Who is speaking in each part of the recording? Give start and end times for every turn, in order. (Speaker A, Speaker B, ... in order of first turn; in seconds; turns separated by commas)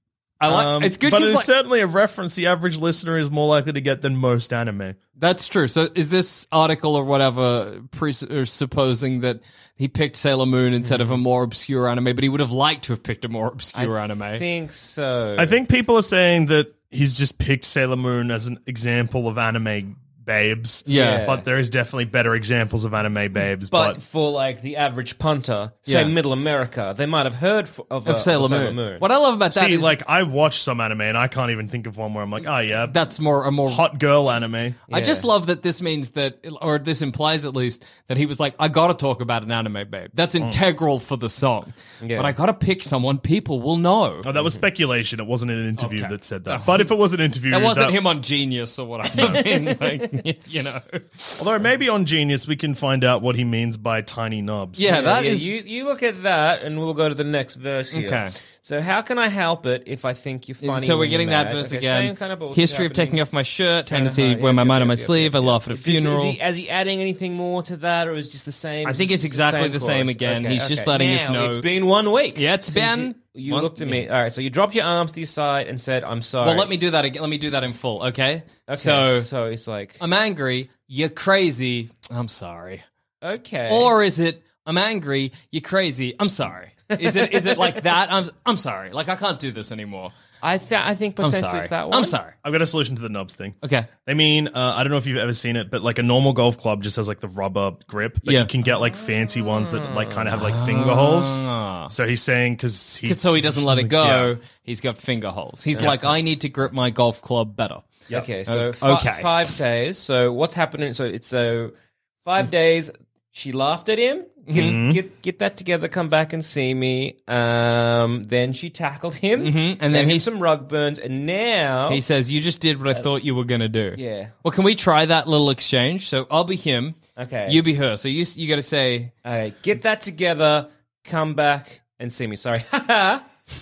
Speaker A: 0.4-1.5, Speaker B: 0.5-5.0, Speaker A: 5.2-14.4, Speaker C: 10.8-11.2, Speaker C: 13.8-15.6, Speaker B: 15.4-24.0, Speaker A: 20.9-21.3, Speaker C: 20.9-21.5, Speaker C: 23.7-29.1, Speaker A: 25.9-26.1, Speaker A: 28.1-29.9, Speaker B: 29.5-33.0, Speaker A: 32.9-33.9, Speaker B: 33.7-34.8, Speaker C: 34.9-35.3, Speaker A: 34.9-44.3, Speaker C: 42.0-42.4, Speaker B: 44.2-48.0, Speaker C: 44.4-44.6, Speaker A: 45.8-47.0, Speaker A: 47.5-51.4, Speaker B: 49.1-49.5, Speaker B: 51.4-54.9, Speaker A: 54.8-55.5, Speaker C: 54.8-63.2, Speaker A: 57.9-58.3, Speaker A: 60.6-66.4, Speaker C: 63.9-76.7, Speaker A: 68.8-71.6, Speaker A: 72.3-74.1, Speaker A: 76.4-79.3, Speaker C: 78.7-80.0, Speaker A: 80.0-82.8, Speaker C: 83.2-84.0, Speaker A: 83.7-90.1, Speaker C: 86.9-87.8, Speaker C: 90.4-92.2, Speaker A: 91.2-92.3, Speaker B: 92.4-104.3, Speaker A: 93.6-93.9, Speaker A: 98.2-98.5, Speaker C: 98.7-100.5, Speaker A: 100.3-101.9, Speaker A: 103.0-109.5, Speaker C: 108.1-111.7, Speaker C: 112.2-122.0, Speaker A: 114.5-114.8, Speaker B: 114.5-115.0, Speaker A: 119.4-120.3, Speaker A: 121.9-129.1, Speaker C: 124.0-124.3, Speaker C: 127.2-127.6, Speaker C: 129.2-133.2